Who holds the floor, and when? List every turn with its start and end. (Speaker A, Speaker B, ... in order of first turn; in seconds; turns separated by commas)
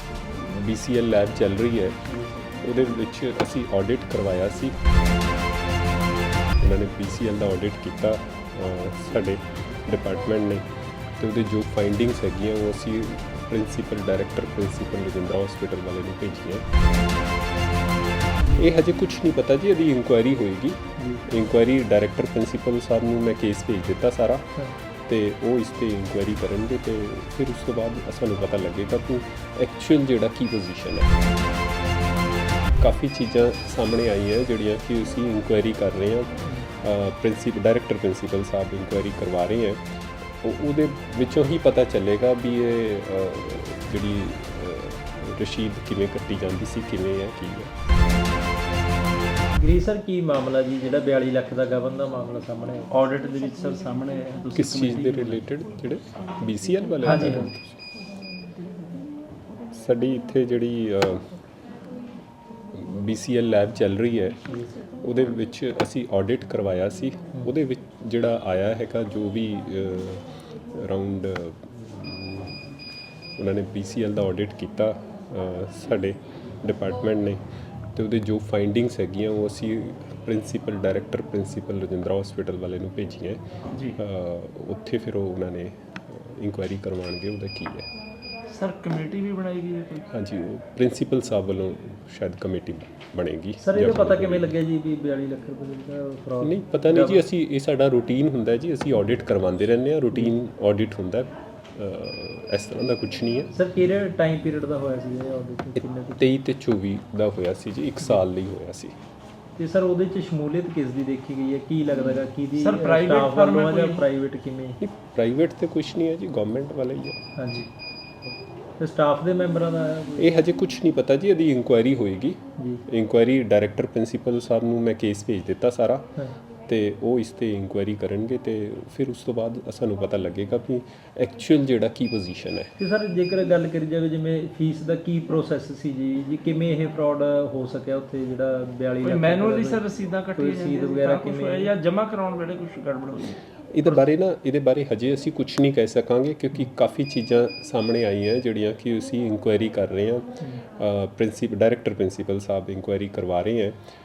Speaker A: 0.4-2.0, Speaker A: 2.6-4.8, Speaker A: 6.6-10.7, Speaker A: 11.2-16.7, Speaker A: 18.5-31.1, Speaker B: 21.0-21.2, Speaker A: 32.8-39.9, Speaker A: 40.4-47.7, Speaker B: 49.5-52.9, Speaker C: 52.9-55.5, Speaker A: 54.5-57.8, Speaker B: 57.0-57.5, Speaker A: 59.7-61.3, Speaker A: 62.7-72.7, Speaker A: 73.4-77.4, Speaker A: 77.9-87.9, Speaker C: 83.7-84.0, Speaker C: 88.5-90.1, Speaker A: 90.1-94.5, Speaker B: 93.6-97.2, Speaker A: 96.4-103.5, Speaker B: 103.5-106.2, Speaker A: 105.8-109.0, Speaker B: 109.6-114.8, Speaker C: 112.6-114.0, Speaker A: 114.8-117.2, Speaker B: 117.4-117.7, Speaker B: 118.8-120.4, Speaker A: 120.2-126.2, Speaker B: 122.6-122.8, Speaker A: 126.7-132.7, Speaker B: 132.8-139.8, Speaker C: 139.0-143.4, Speaker B: 140.3-141.7, Speaker A: 143.7-153.8